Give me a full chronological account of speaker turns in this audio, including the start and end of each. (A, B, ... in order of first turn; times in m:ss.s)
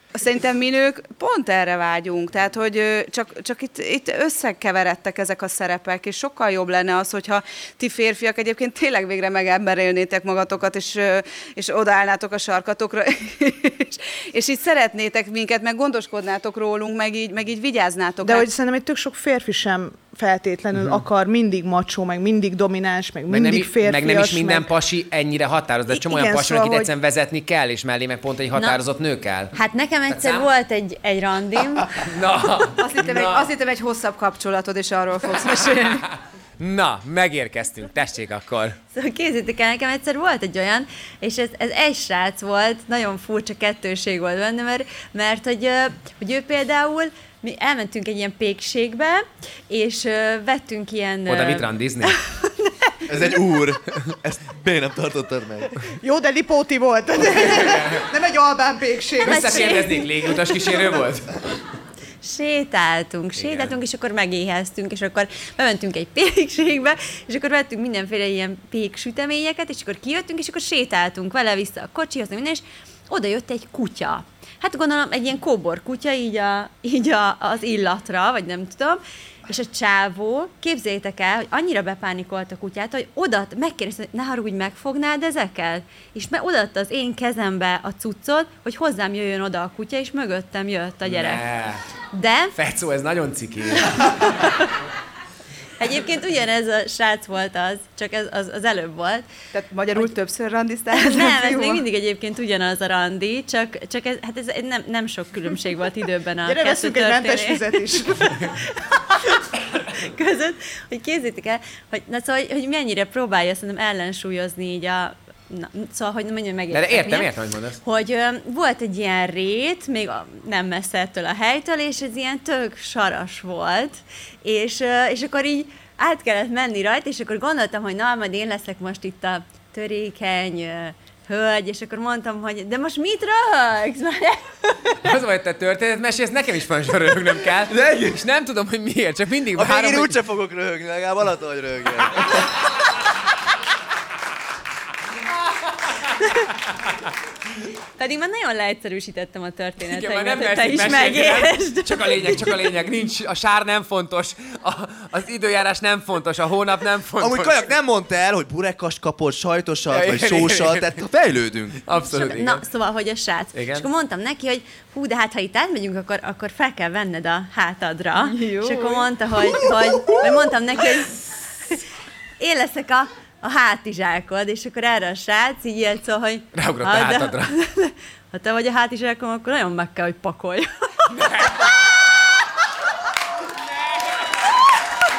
0:00.2-0:18.5 A
0:18.2-0:24.7 B
0:20.7-0:21.0 C
0:23.3-0:29.5 C
0:25.9-0:26.9 B
0:28.5-0:28.8 D
0:29.5-0:32.2 D
0:30.1-0:30.5 C
0:31.9-0:33.5 C
0:32.8-0:36.1 A
0:36.0-0:38.8 C
0:38.9-0:53.0 D
0:51.3-0:52.2 C
0:53.1-0:55.7 E
0:56.0-0:59.9 B
0:57.4-0:58.0 C
0:59.2-1:01.4 C
0:59.2-1:00.1 D
1:02.2-1:31.4 D
1:03.4-1:03.8 C
1:31.0-1:31.8 C
1:32.1-1:32.6 D
1:32.6-1:34.4 C
1:34.1-1:34.7 D
1:35.8-1:39.3 D
1:39.5-1:41.8 A
1:40.9-1:57.3 D
1:46.5-1:48.6 B
1:56.7-1:57.8 C
1:57.8-2:15.1 D
2:15.0-2:20.2 C
2:17.7-2:18.2 E
2:19.6-2:22.4 E
2:26.2-2:26.5 D
2:28.0-2:32.6 D
2:29.8-2:37.7 C
2:37.2-2:41.8 E
2:39.9-2:41.0 C
2:41.8-2:42.6 C
2:42.1-2:51.8 D
2:43.5-2:43.9 C
2:48.2-2:49.1 A
2:52.4-3:01.0 D
2:56.6-2:57.5 C
3:01.1-3:01.8 C
3:03.6-3:04.0 C